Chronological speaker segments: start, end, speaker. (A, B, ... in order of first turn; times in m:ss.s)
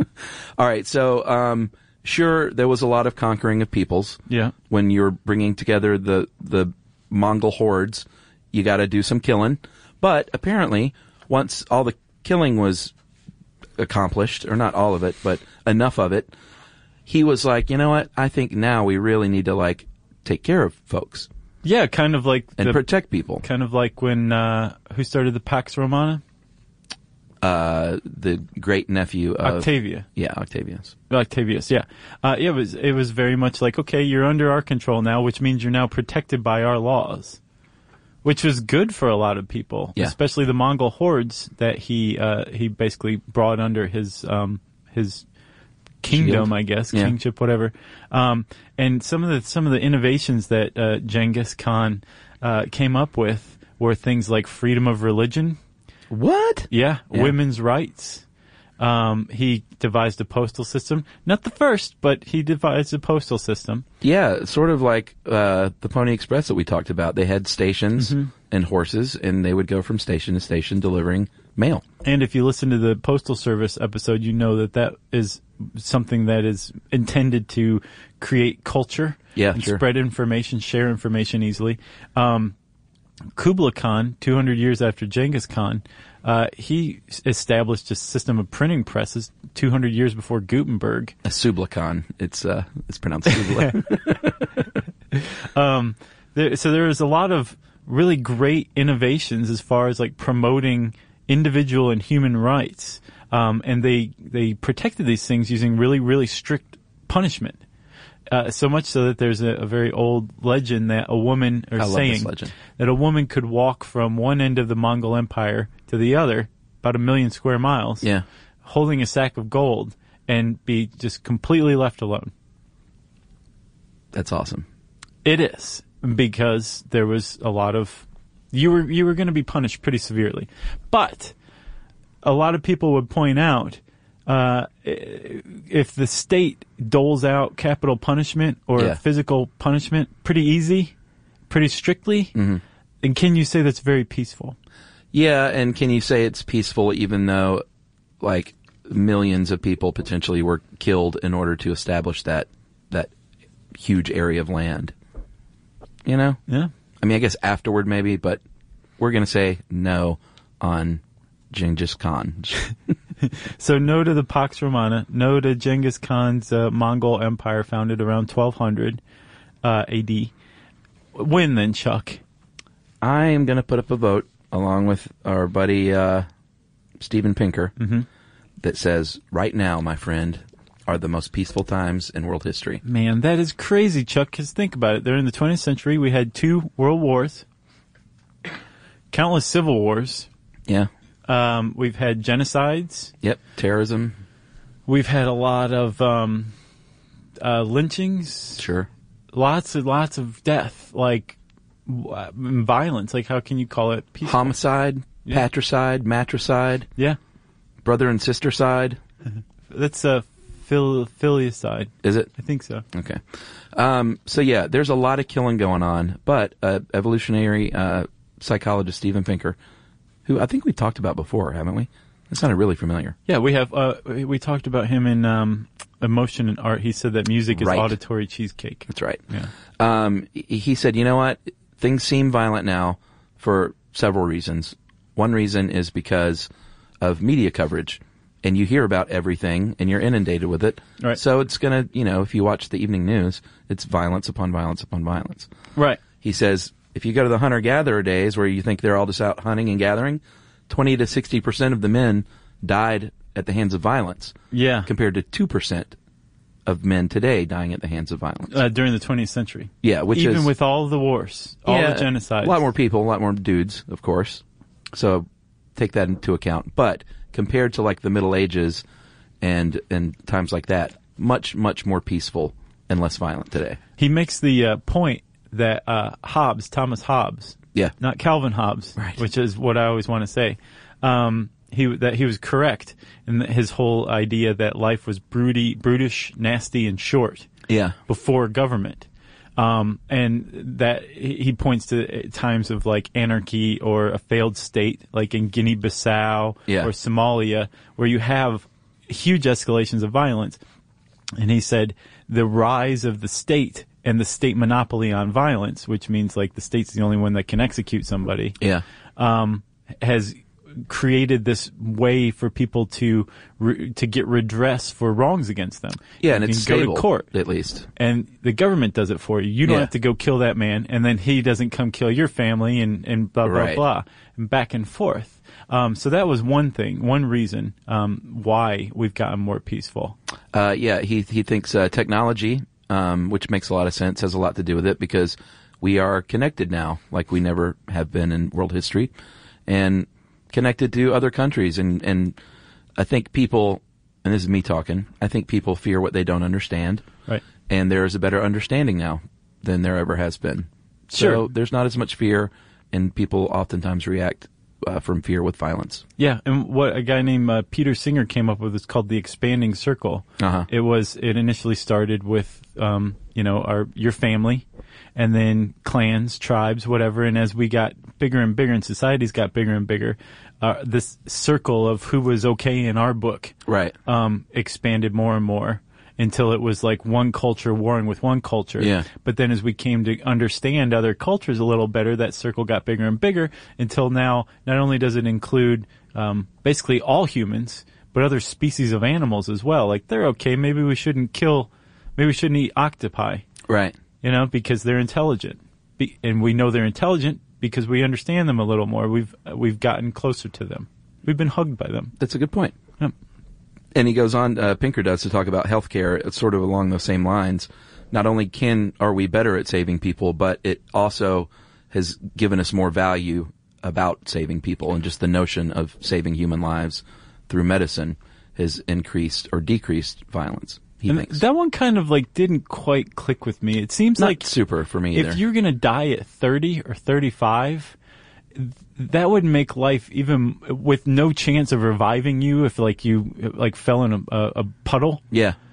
0:00.6-0:12.9 A
0:04.3-0:04.5 B
0:13.8-0:16.3 A
0:17.1-0:21.3 A
0:21.6-0:22.8 B
0:22.6-0:23.4 A
0:23.4-0:26.2 B
0:27.4-0:30.9 A
0:29.4-0:30.0 B
0:31.1-0:37.4 B
0:38.2-0:45.2 B
0:46.0-0:55.6 B
0:46.1-0:47.1 A
0:56.1-0:57.3 A
0:56.7-0:58.2 B
0:58.8-1:03.8 B
1:04.0-1:11.8 A
1:08.0-1:08.3 B
1:12.0-1:22.6 B
1:19.4-1:19.8 A
1:23.4-1:31.1 B
1:31.2-1:34.5 A
1:33.3-1:33.9 B
1:35.1-1:47.6 B
1:48.3-1:58.1 B
1:51.8-1:52.5 A
1:58.6-2:02.3 B
2:04.1-2:04.6 A
2:05.2-2:11.3 B
2:12.2-2:20.9 B
2:21.5-2:22.3 B
2:22.3-2:22.6 A
2:23.0-2:24.6 B
2:25.1-2:27.6 A
2:28.2-2:33.1 A
2:33.7-2:34.9 A
2:36.0-2:36.4 A
2:37.0-2:38.4 A
2:39.0-2:42.6 A
2:43.2-2:49.0 B
2:49.6-2:50.3 B
2:51.1-2:52.2 B
2:53.0-2:56.3 A
2:57.0-2:57.7 A
2:57.8-2:58.0 B
2:58.6-3:02.8 A
3:02.8-3:07.4 B
3:09.1-3:10.3 B
3:11.3-3:13.1 B
3:13.2-3:14.2 A
3:14.9-3:16.5 B
3:17.4-3:18.6 B
3:18.6-3:18.9 A
3:19.3-3:24.6 B
3:24.2-3:26.9 A
3:27.8-3:29.0 A
3:29.7-3:32.8 B
3:32.0-3:32.3 A
3:32.9-3:39.6 A
3:40.2-3:43.2 A
3:43.3-3:49.5 B
3:47.6-3:47.9 A
3:48.9-3:49.2 A
3:49.8-3:56.5 A
3:57.0-4:05.5 A
4:05.8-4:06.0 B
4:06.2-4:15.9 A
4:14.5-4:14.9 B
4:16.6-4:18.6 A
4:18.5-4:22.7 B
4:19.8-4:20.5 A
4:21.7-4:28.8 A
4:29.4-4:33.8 A
4:34.0-4:47.5 B
4:47.7-4:48.0 A
4:48.1-5:00.6 B
5:01.4-5:08.6 B
5:09.2-5:17.3 B
5:16.2-5:17.9 A
5:18.0-5:30.2 B
5:19.6-5:19.9 A
5:23.4-5:23.8 A
5:30.5-5:39.1 A
5:39.7-5:42.4 A
5:43.0-5:47.0 A
5:47.6-5:56.0 A
5:51.1-5:51.4 B
5:56.2-6:04.6 B
6:00.4-6:00.7 A
6:05.2-6:13.5 B
6:13.6-6:13.9 A
6:14.0-6:33.4 B
6:18.8-6:19.0 A
6:33.7-6:34.0 A
6:34.2-6:42.1 B
6:42.2-6:42.8 A
6:43.9-7:01.4 A
7:01.1-7:04.5 B
7:04.2-7:05.4 A
7:05.1-7:07.9 B
7:08.5-7:15.2 B
7:15.3-7:15.6 A